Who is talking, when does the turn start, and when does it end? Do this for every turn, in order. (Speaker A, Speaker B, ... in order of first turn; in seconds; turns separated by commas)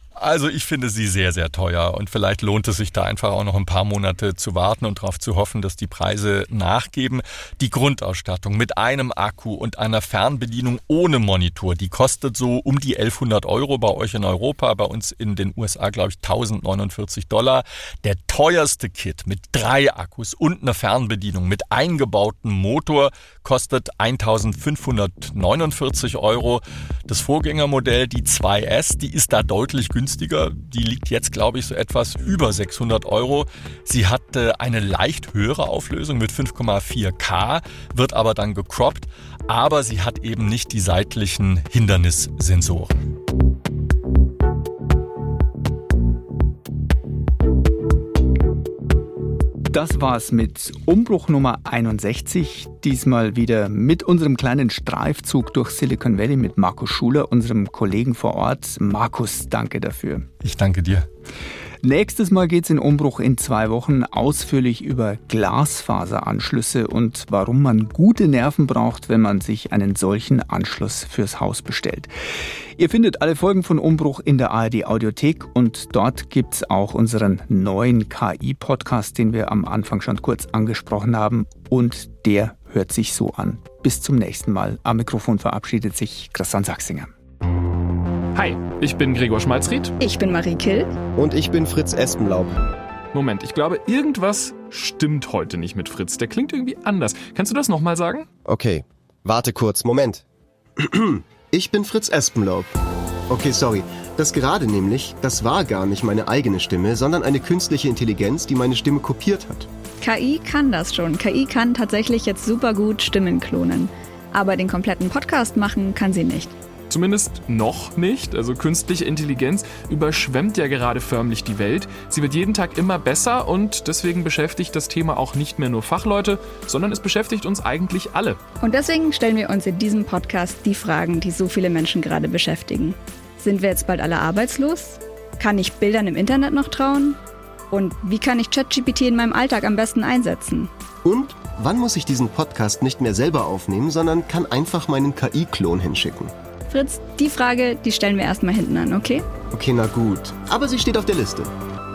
Speaker A: 0.2-43.0, Speaker B: 49.7-60.3, Speaker A: 60.4-61.1, Speaker B: 61.8-72.1, Speaker B: 72.8-87.1, Speaker C: 88.3-90.0, Speaker D: 90.0-90.9, Speaker E: 91.1-92.6, Speaker C: 93.1-98.3, Speaker E: 98.5-100.2, Speaker E: 100.8-102.7, Speaker E: 103.3-109.7, Speaker D: 110.0-116.6, Speaker C: 116.9-128.4, Speaker D: 128.6-137.2, Speaker D: 137.7-140.7, Speaker E: 141.0-146.3, Speaker D: 146.7-149.3, Speaker E: 149.5-151.5